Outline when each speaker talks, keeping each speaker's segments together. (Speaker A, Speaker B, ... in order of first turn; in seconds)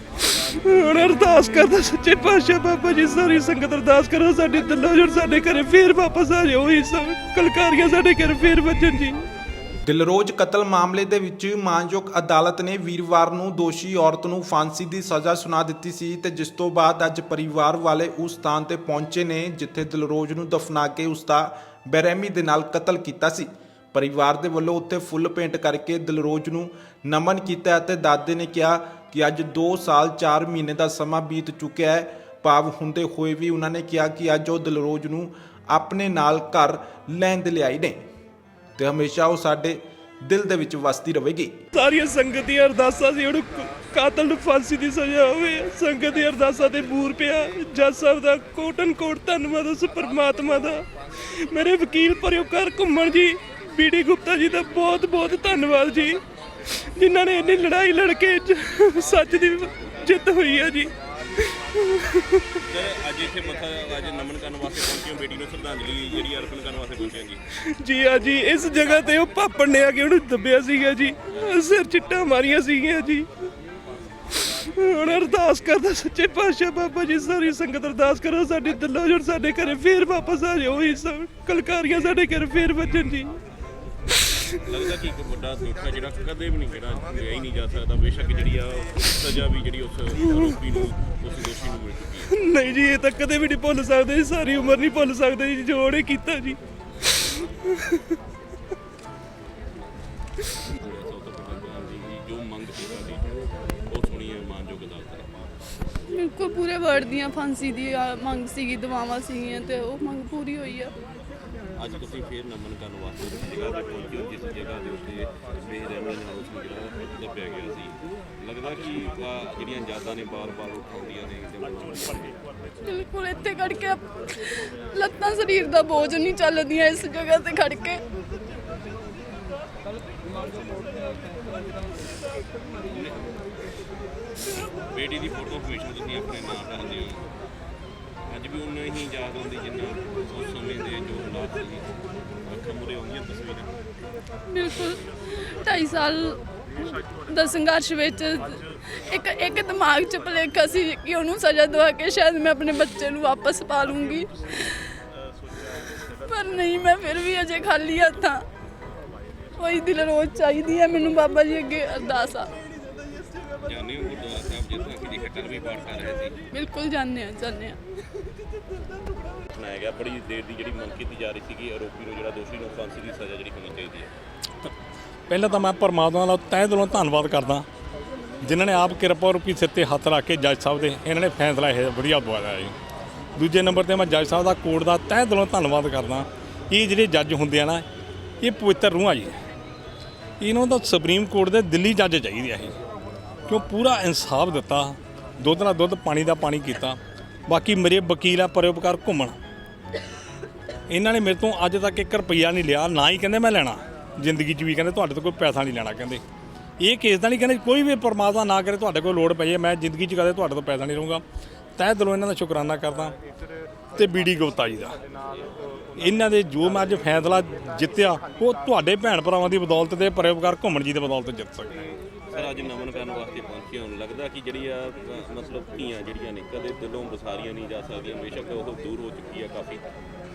Speaker A: 0.6-9.2, 41.8-56.2, 56.8-62.5, 67.7-73.3, 74.7-83.3, 92.3-96.6, 97.5-98.0
Speaker B: 9.9-38.0, 38.8-41.5
Speaker C: 62.6-67.4, 84.6-92.3, 100.8-103.3, 103.9-105.3, 111.8-122.4, 130.3-130.8, 132.8-133.3, 134.9-137.2, 138.3-141.9, 142.4-143.7, 163.6-166.5, 169.5-174.1, 222.3-229.8
Speaker D: 106.1-110.9, 122.9-128.0, 144.5-145.0, 145.5-146.4, 147.3-154.9, 156.3-158.4, 159.6-162.5, 166.5-167.8
Speaker E: 175.3-177.7, 178.4-182.7, 183.4-187.8, 188.4-189.3, 190.4-192.8, 193.5-199.4, 200.9-206.2, 206.8-211.2, 211.8-213.2, 213.9-215.0, 216.0-221.8